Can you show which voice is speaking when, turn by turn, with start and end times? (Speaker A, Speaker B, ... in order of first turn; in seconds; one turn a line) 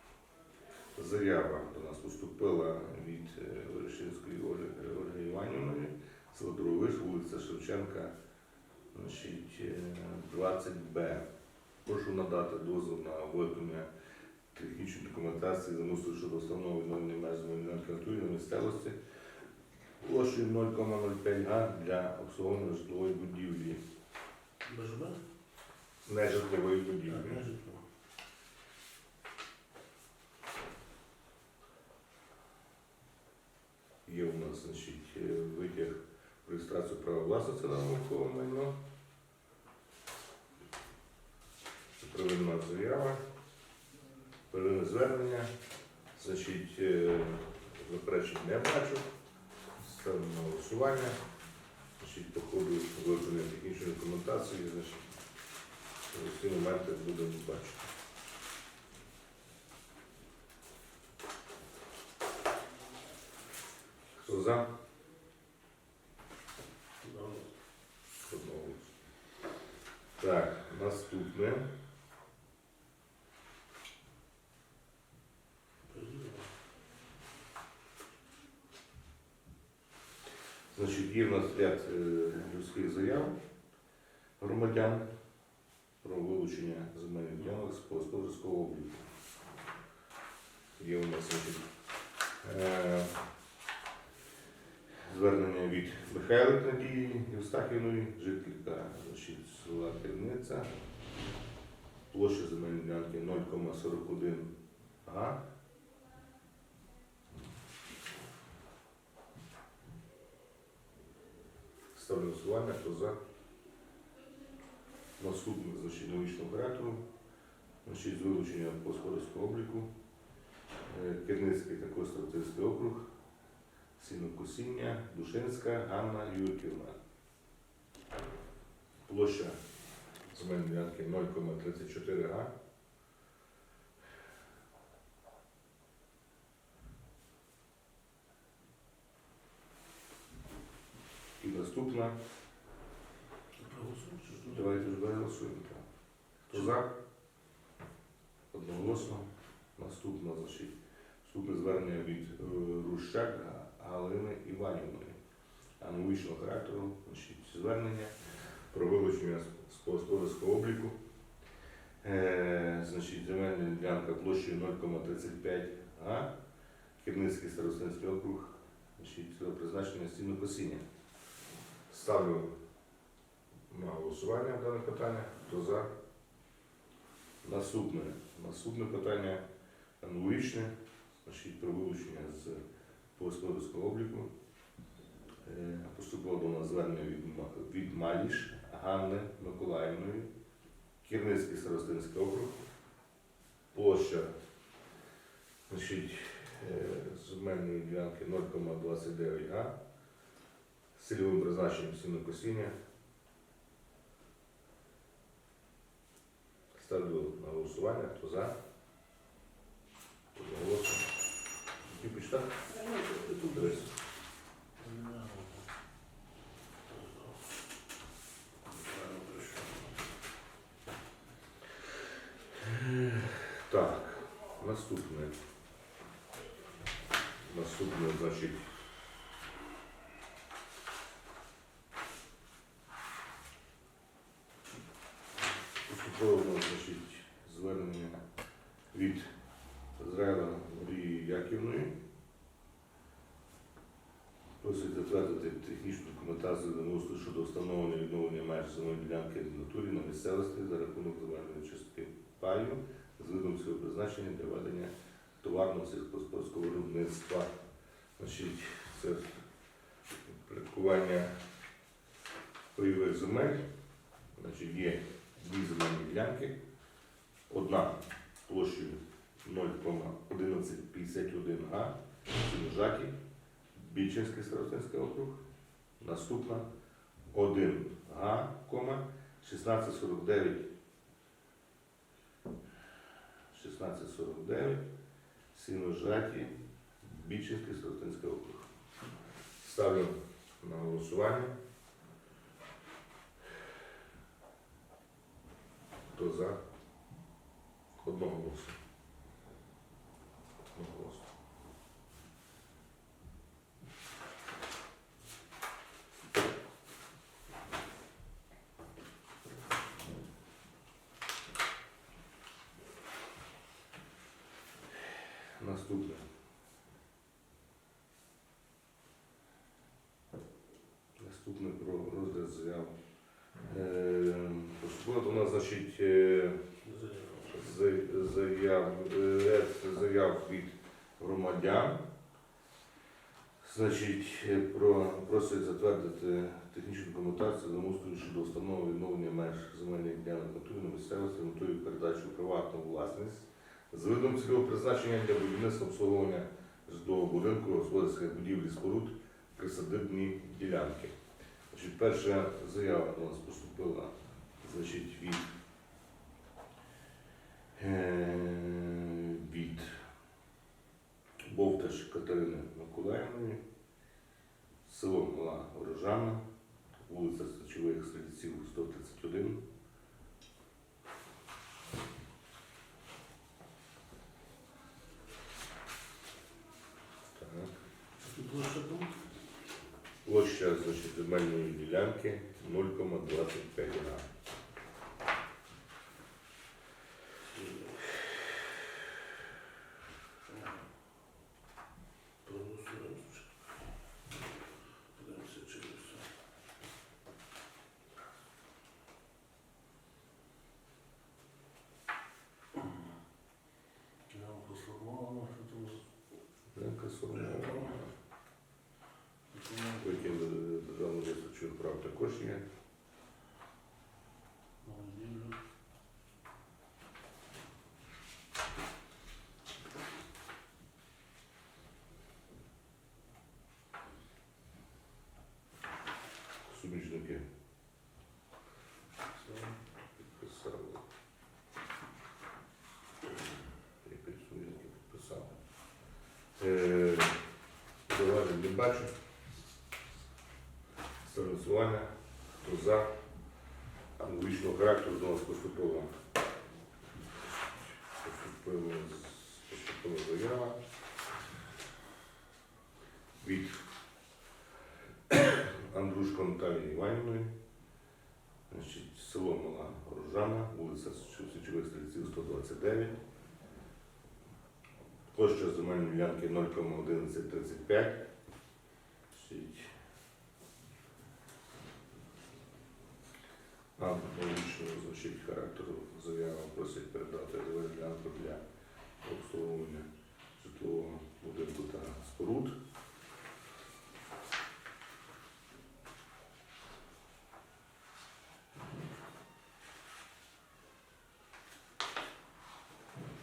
Speaker A: 0.9-8.1
Speaker A: 8.9-11.2
Speaker A: 11.8-13.9
Speaker A: 14.5-18.9
Speaker A: 20.0-23.8
Speaker B: 24.6-25.2
Speaker A: 26.0-27.5
Speaker B: 27.1-27.8
Speaker A: 34.0-38.7
Speaker A: 42.0-43.2
Speaker A: 44.5-45.5
Speaker A: 46.1-49.0
Speaker A: 49.8-51.1
Speaker A: 52.0-55.0
Speaker A: 56.1-57.9
Speaker A: 64.2-64.7
Speaker B: 67.0-67.5
Speaker A: 68.2-68.9
Speaker A: 70.2-71.7
Speaker B: 75.9-76.5
Speaker A: 80.7-83.3
Speaker A: 84.4-85.0
Speaker A: 86.0-89.1
Speaker A: 90.8-91.6
Speaker A: 92.4-93.2
Speaker A: 95.0-100.7
Speaker A: 102.1-105.4
Speaker A: 111.9-113.2
Speaker A: 115.2-117.0
Speaker A: 117.8-119.9
Speaker A: 120.9-123.0
Speaker A: 124.0-127.0
Speaker A: 129.0-129.6
Speaker A: 130.3-132.5
Speaker A: 141.4-142.2
Speaker B: 143.6-144.9
Speaker A: 144.4-145.8
Speaker A: 146.5-146.9
Speaker B: 146.5-146.8
Speaker A: 148.5-155.2
Speaker A: 155.8-158.1
Speaker A: 158.7-160.9
Speaker A: 162.0-166.3
Speaker A: 167.0-170.8
Speaker A: 171.9-172.5
Speaker A: 173.7-175.9
Speaker A: 177.4-179.4
Speaker A: 180.0-180.7
Speaker A: 181.2-182.6
Speaker A: 183.2-184.3
Speaker A: 185.4-190.3
Speaker A: 191.0-192.6
Speaker A: 193.7-194.3
Speaker A: 195.7-199.8
Speaker A: 200.9-202.7
Speaker A: 206.7-208.5
Speaker A: 210.3-211.1
Speaker A: 211.9-212.6
Speaker B: 212.7-213.9
Speaker A: 213.4-213.9
Speaker B: 214.8-215.6
Speaker B: 216.9-217.3
Speaker B: 218.7-219.8
Speaker A: 222.5-225.3
Speaker A: 227.4-228.7
Speaker A: 235.8-238.2
Speaker A: 238.9-239.3
Speaker A: 240.0-241.9
Speaker A: 244.6-257.5
Speaker A: 258.2-259.4
Speaker A: 260.2-261.3
Speaker A: 262.7-263.6
Speaker A: 264.4-266.5
Speaker A: 267.5-273.1
Speaker A: 273.7-275.4
Speaker A: 276.0-276.6
Speaker A: 277.3-280.7
Speaker A: 283.5-284.8
Speaker A: 285.5-288.7
Speaker A: 289.6-291.5
Speaker A: 296.1-296.6
Speaker A: 298.0-298.8
Speaker A: 300.7-301.3
Speaker A: 315.1-316.2
Speaker A: 321.2-322.9
Speaker A: 323.6-326.6
Speaker B: 326.8-327.6
Speaker A: 327.5-332.0
Speaker A: 333.6-351.1
Speaker A: 351.7-355.5
Speaker A: 357.8-360.0
Speaker A: 361.4-363.6
Speaker A: 364.8-366.4
Speaker A: 367.0-369.6
Speaker A: 377.3-377.7
Speaker B: 378.2-379.1
Speaker A: 380.2-384.3
Speaker B: 387.5-388.6
Speaker B: 390.5-390.8
Speaker B: 392.4-393.7
Speaker B: 395.1-396.3
Speaker B: 404.3-406.1
Speaker A: 406.7-408.1
Speaker B: 407.3-408.0
Speaker B: 409.5-410.3
Speaker A: 410.0-412.6
Speaker B: 414.8-415.6
Speaker A: 426.6-427.4
Speaker B: 429.4-429.8
Speaker A: 430.2-431.0
Speaker A: 434.0-435.5
Speaker A: 436.6-437.4
Speaker A: 438.1-439.1
Speaker A: 441.2-442.1
Speaker A: 442.6-443.1
Speaker A: 444.2-446.1
Speaker A: 448.2-450.8
Speaker A: 453.4-453.8
Speaker A: 455.3-457.5
Speaker A: 458.7-463.2
Speaker A: 465.3-468.2
Speaker A: 469.3-469.9
Speaker A: 474.0-478.6
Speaker A: 479.2-482.8